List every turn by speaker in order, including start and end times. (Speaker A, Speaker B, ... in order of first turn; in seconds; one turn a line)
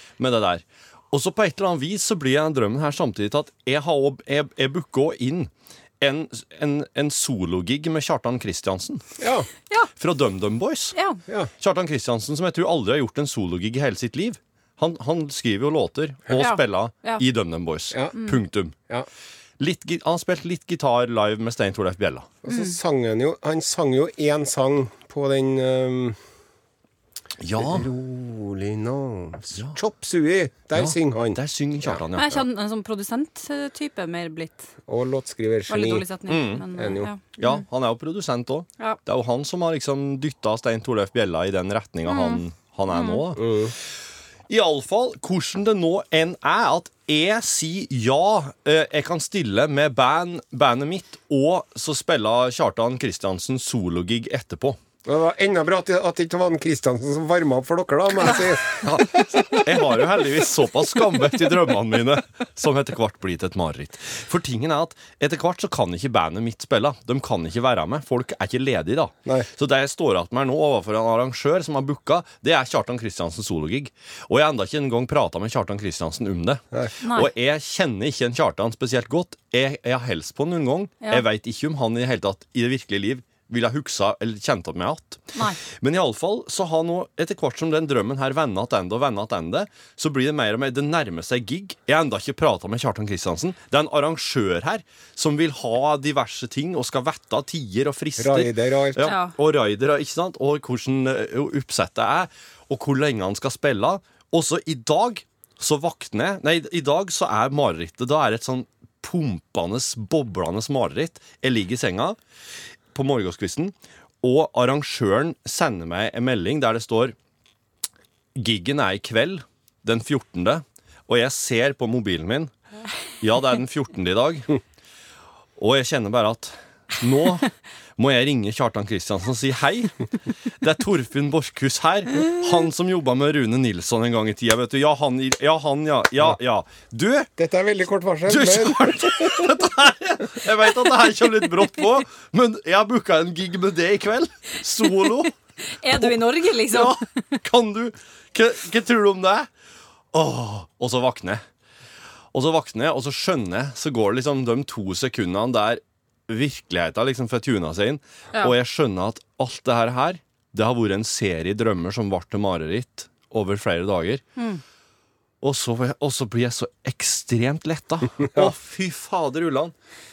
Speaker A: 0.2-9.1
Speaker B: 9.2-9.5
Speaker A: 10.0-11.0
Speaker C: 10.9-11.2
Speaker A: 11.6-18.7
Speaker C: 16.4-17.2
Speaker A: 19.6-22.4
Speaker B: 22.4-26.2
Speaker C: 22.5-22.8
Speaker A: 27.4-27.9
Speaker B: 27.6-32.0
Speaker A: 30.7-32.4
Speaker C: 32.1-34.7
Speaker B: 34.9-36.1
Speaker C: 35.7-37.6
Speaker A: 36.3-36.6
Speaker B: 36.8-37.1
Speaker A: 37.4-43.4
Speaker C: 42.1-43.2
Speaker B: 43.4-43.7
Speaker A: 44.5-54.8
Speaker B: 55.0-58.9
Speaker A: 58.8-112.2
Speaker C: 77.0-77.3
Speaker B: 98.2-99.1
Speaker C: 99.0-99.3
Speaker A: 112.9-117.2
Speaker A: 118.3-122.5
Speaker A: 123.2-124.6
Speaker A: 125.6-129.9
Speaker A: 130.6-137.3
Speaker B: 137.4-139.4
Speaker A: 138.3-145.3
Speaker C: 145.7-147.3
Speaker A: 145.9-149.5
Speaker A: 150.1-151.4
Speaker A: 152.3-164.2
Speaker A: 165.4-169.7